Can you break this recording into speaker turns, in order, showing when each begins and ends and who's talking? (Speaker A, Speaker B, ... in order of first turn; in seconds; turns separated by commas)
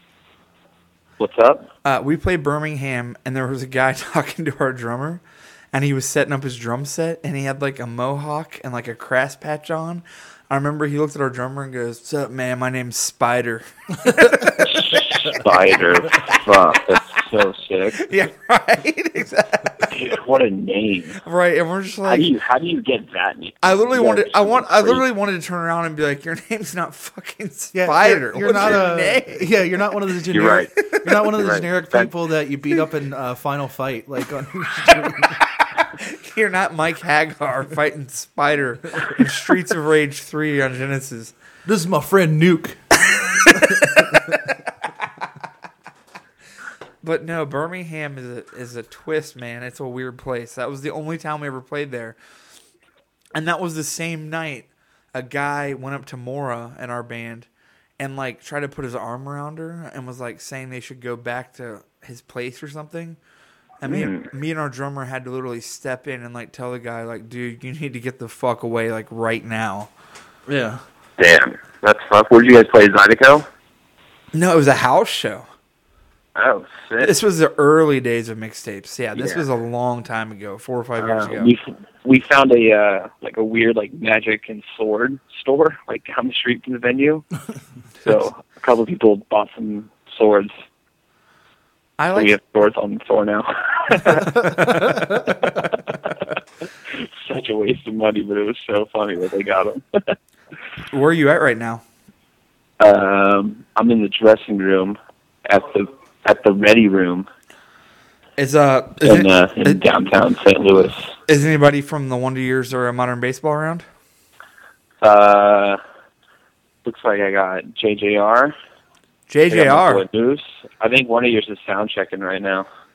Speaker A: 1.2-1.7, Speaker B: 1.8-15.2, Speaker A: 14.6-18.1, Speaker B: 18.0-20.0, Speaker A: 19.9-21.2, Speaker B: 21.2-22.3, Speaker A: 22.0-25.0, Speaker B: 23.6-29.5, Speaker C: 27.7-35.4, Speaker A: 30.3-30.7, Speaker B: 30.8-31.4, Speaker A: 31.3-32.1, Speaker B: 35.8-41.3, Speaker C: 41.6-43.0, Speaker B: 43.2-44.2, Speaker C: 43.5-44.3, Speaker B: 47.0-52.1, Speaker B: 53.3-57.5, Speaker B: 58.0-63.2, Speaker B: 63.8-69.9, Speaker A: 63.8-64.3, Speaker C: 70.5-70.8, Speaker A: 71.2-73.5, Speaker B: 74.3-75.5, Speaker A: 76.3-77.2, Speaker B: 77.0-81.5, Speaker A: 79.1-79.4, Speaker A: 81.0-87.2, Speaker A: 88.0-90.5, Speaker B: 92.0-92.3, Speaker A: 92.1-95.9, Speaker B: 94.2-95.2, Speaker A: 96.9-100.1, Speaker B: 100.9-101.8, Speaker A: 102.8-107.3, Speaker B: 108.4-109.8, Speaker A: 109.0-111.1, Speaker B: 111.3-113.8, Speaker A: 115.0-115.8, Speaker A: 116.8-118.5, Speaker B: 119.3-120.0, Speaker A: 119.5-122.7